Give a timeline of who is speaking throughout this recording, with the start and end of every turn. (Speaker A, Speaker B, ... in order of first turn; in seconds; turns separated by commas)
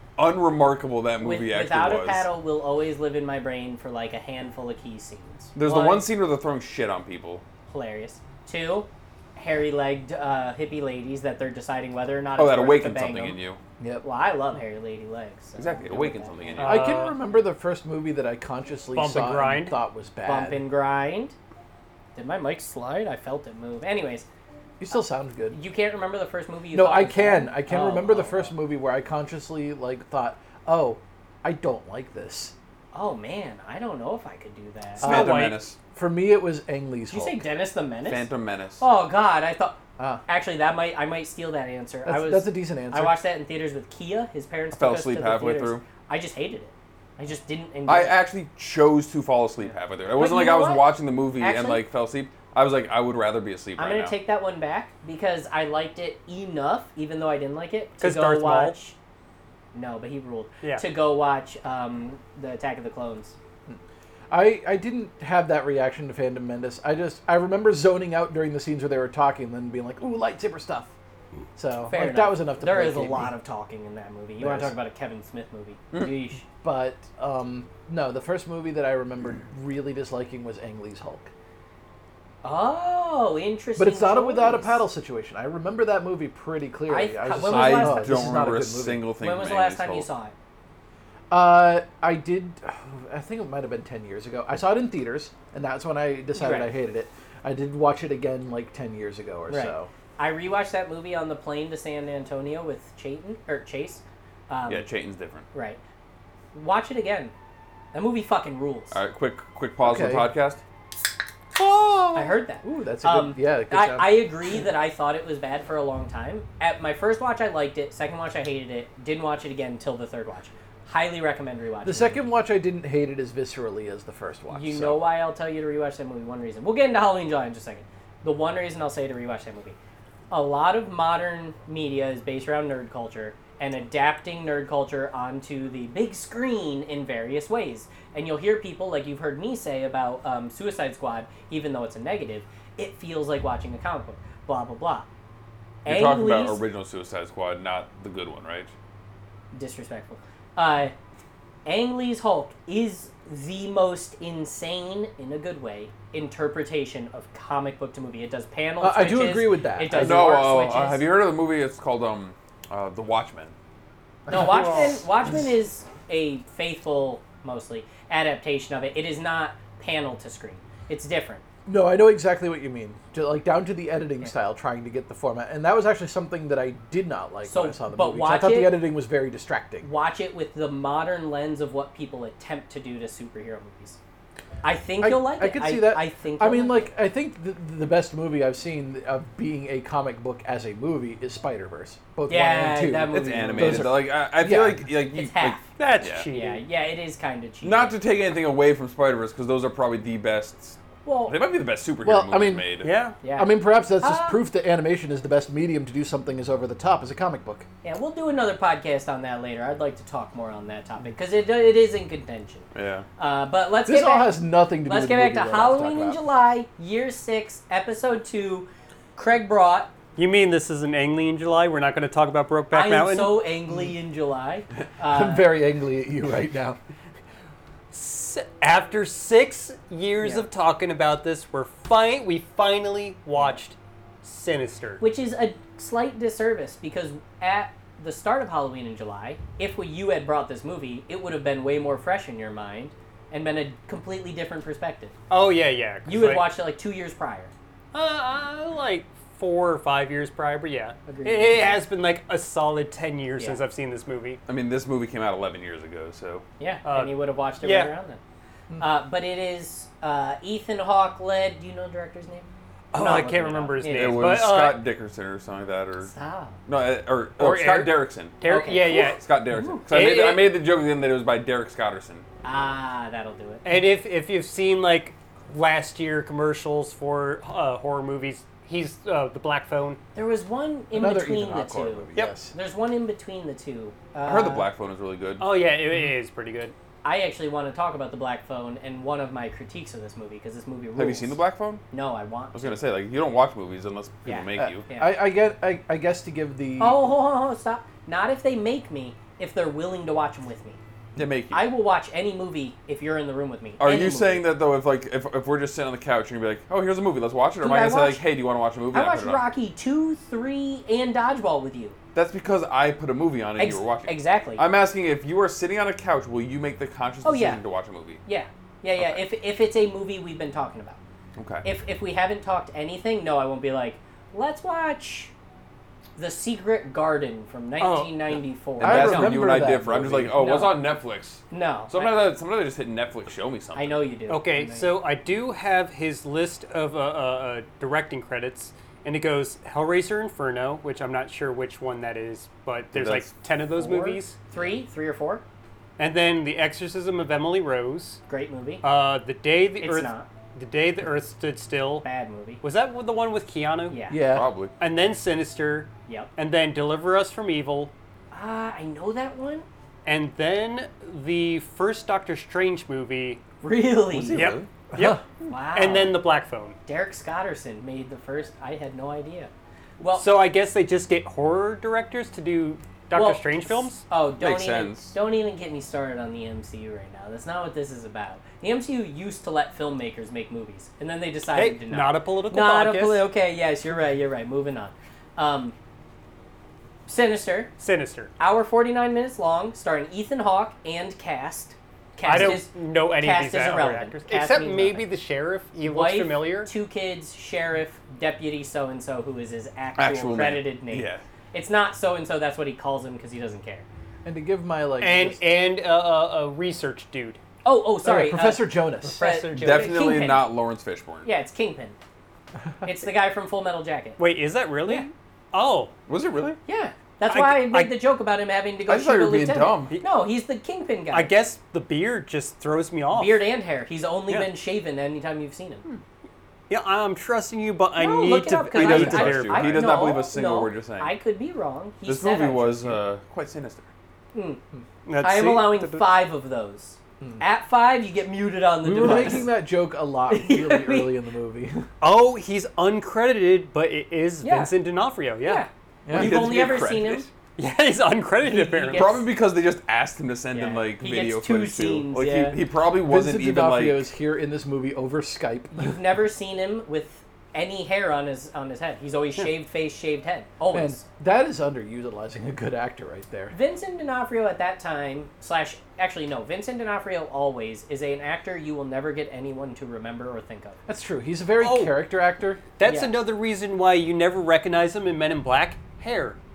Speaker A: 0.2-2.2, Speaker B: 1.2-6.1, Speaker A: 5.5-7.4, Speaker B: 7.7-13.4, Speaker A: 12.4-13.6, Speaker C: 13.8-14.0, Speaker B: 14.0-16.9, Speaker A: 15.6-16.9, Speaker D: 16.6-17.2, Speaker C: 16.6-20.6, Speaker D: 18.9-19.8, Speaker B: 20.2-21.4, Speaker B: 22.2-24.2, Speaker C: 24.8-25.6, Speaker B: 25.5-28.5, Speaker C: 26.7-32.5, Speaker B: 32.9-35.3, Speaker A: 35.0-35.8, Speaker C: 35.0-37.5, Speaker D: 35.0-35.5, Speaker B: 37.1-38.3, Speaker A: 38.0-38.8, Speaker B: 38.8-48.2, Speaker C: 40.0-40.2, Speaker C: 42.0-43.2, Speaker A: 44.7-45.8, Speaker A: 47.9-54.2, Speaker B: 49.6-51.8, Speaker B: 53.8-58.9, Speaker D: 58.0-58.8, Speaker B: 59.7-63.4, Speaker C: 63.7-70.9, Speaker C: 71.6-73.4, Speaker B: 71.9-76.4, Speaker C: 74.4-74.8, Speaker C: 76.6-81.3, Speaker B: 82.4-84.8, Speaker C: 83.8-89.1, Speaker B: 86.9-88.3, Speaker A: 87.4-90.1, Speaker B: 89.2-90.3, Speaker C: 91.3-99.9, Speaker B: 96.3-96.7, Speaker B: 99.5-104.9, Speaker A: 104.7-105.5, Speaker B: 105.5-105.8, Speaker B: 106.5-107.3, Speaker B: 107.9-109.0, Speaker A: 108.9-110.6, Speaker C: 109.8-110.3, Speaker A: 111.6-112.2, Speaker B: 112.1-122.2, Speaker C: 112.6-114.2, Speaker C: 121.8-125.0, Speaker B: 124.5-129.8, Speaker B: 130.3-145.1, Speaker B: 145.8-146.6, Speaker A: 145.8-148.7, Speaker B: 149.5-150.9, Speaker B: 151.6-161.1, Speaker C: 158.8-160.4, Speaker A: 159.9-163.5, Speaker C: 164.3-164.6, Speaker B: 164.3-171.4, Speaker C: 171.7-179.9, Speaker B: 177.4-178.8, Speaker B: 179.8-184.0, Speaker B: 184.6-186.9, Speaker C: 185.0-194.9, Speaker B: 192.3-193.9, Speaker A: 193.1-196.3, Speaker B: 195.1-195.8, Speaker D: 195.8-196.6, Speaker B: 196.3-197.9, Speaker A: 197.6-202.9, Speaker B: 201.0-201.3, Speaker C: 202.0-202.7, Speaker D: 202.8-203.2, Speaker B: 203.2-204.4, Speaker C: 203.3-207.7, Speaker B: 207.8-219.9, Speaker A: 212.7-213.1, Speaker C: 213.9-216.2, Speaker D: 220.2-223.4, Speaker B: 222.7-225.5, Speaker C: 225.1-226.8, Speaker D: 227.9-235.0, Speaker B: 230.2-230.5, Speaker B: 235.0-245.1, Speaker D: 245.3-246.5, Speaker B: 246.1-247.5, Speaker D: 247.9-254.4, Speaker B: 251.1-251.8, Speaker A: 254.5-256.4, Speaker B: 256.6-258.2, Speaker D: 256.9-257.9, Speaker B: 258.8-264.3, Speaker D: 262.9-264.8, Speaker A: 263.9-266.1, Speaker B: 266.0-266.6, Speaker A: 266.6-268.4, Speaker D: 267.4-269.3, Speaker B: 268.5-270.2, Speaker A: 268.9-272.2, Speaker D: 269.9-270.5, Speaker B: 272.4-273.6, Speaker D: 273.6-280.0, Speaker B: 280.1-284.7, Speaker C: 280.9-282.5, Speaker A: 284.2-285.5, Speaker D: 285.4-286.7, Speaker B: 287.0-291.4, Speaker A: 291.0-291.8, Speaker B: 291.9-292.8, Speaker A: 292.5-294.9, Speaker B: 294.2-295.1, Speaker C: 294.6-297.1, Speaker B: 296.8-300.8, Speaker A: 301.1-301.6, Speaker B: 301.5-304.4, Speaker A: 303.8-309.4, Speaker B: 307.6-308.2, Speaker B: 308.9-312.0, Speaker A: 312.1-318.2, Speaker B: 313.6-314.6, Speaker B: 317.2-317.6, Speaker B: 318.2-321.0, Speaker A: 321.4-321.6, Speaker B: 321.6-325.3, Speaker B: 326.2-329.4, Speaker D: 327.8-328.1, Speaker A: 328.8-334.0, Speaker C: 328.8-330.7, Speaker B: 330.4-330.8, Speaker B: 331.5-332.3, Speaker B: 333.8-334.9, Speaker D: 334.3-344.4, Speaker A: 342.9-343.3, Speaker B: 343.8-345.4, Speaker D: 346.0-348.2, Speaker B: 348.3-348.8, Speaker D: 348.8-352.1, Speaker B: 349.8-350.3, Speaker B: 352.0-352.6, Speaker D: 352.6-354.0, Speaker B: 353.9-354.2, Speaker C: 354.1-354.5, Speaker A: 354.3-354.7, Speaker D: 354.8-357.9, Speaker B: 358.3-359.7, Speaker D: 360.0-363.4, Speaker B: 363.6-364.5, Speaker A: 364.1-364.7, Speaker D: 364.4-365.2, Speaker C: 364.9-365.2, Speaker B: 365.5-366.1, Speaker D: 365.7-366.8, Speaker B: 366.9-370.3, Speaker D: 370.1-374.0, Speaker B: 373.1-385.8, Speaker A: 374.4-375.1, Speaker D: 381.5-383.2, Speaker B: 387.1-387.7, Speaker D: 387.8-388.3, Speaker B: 388.4-395.1, Speaker D: 392.2-396.7, Speaker B: 395.8-403.9, Speaker A: 400.0-401.2, Speaker C: 404.2-405.4, Speaker D: 405.0-407.4, Speaker B: 407.6-410.5, Speaker C: 408.0-409.2, Speaker D: 409.0-410.1, Speaker A: 409.6-411.3, Speaker B: 411.2-412.0, Speaker B: 412.8-414.2, Speaker D: 414.2-415.9, Speaker A: 416.1-416.6, Speaker B: 416.6-421.3, Speaker D: 417.3-418.0, Speaker A: 418.9-420.0, Speaker D: 421.1-423.4, Speaker B: 423.1-425.9, Speaker D: 426.7-430.1, Speaker B: 428.0-433.0, Speaker A: 428.8-431.1, Speaker A: 432.1-433.9, Speaker B: 434.3-434.6, Speaker D: 435.1-436.1, Speaker B: 435.2-439.5, Speaker C: 438.8-441.9, Speaker B: 440.3-441.1, Speaker D: 442.0-445.6, Speaker B: 444.4-444.7, Speaker B: 445.4-447.3, Speaker C: 446.1-446.4, Speaker A: 446.1-447.3, Speaker D: 447.6-449.2, Speaker B: 448.4-449.2, Speaker A: 448.9-454.1, Speaker B: 450.5-452.6, Speaker C: 453.0-456.0, Speaker B: 455.7-461.0, Speaker C: 460.7-463.6, Speaker B: 463.5-470.8, Speaker C: 470.9-472.6, Speaker D: 471.6-472.0, Speaker D: 472.8-476.4, Speaker B: 472.8-473.1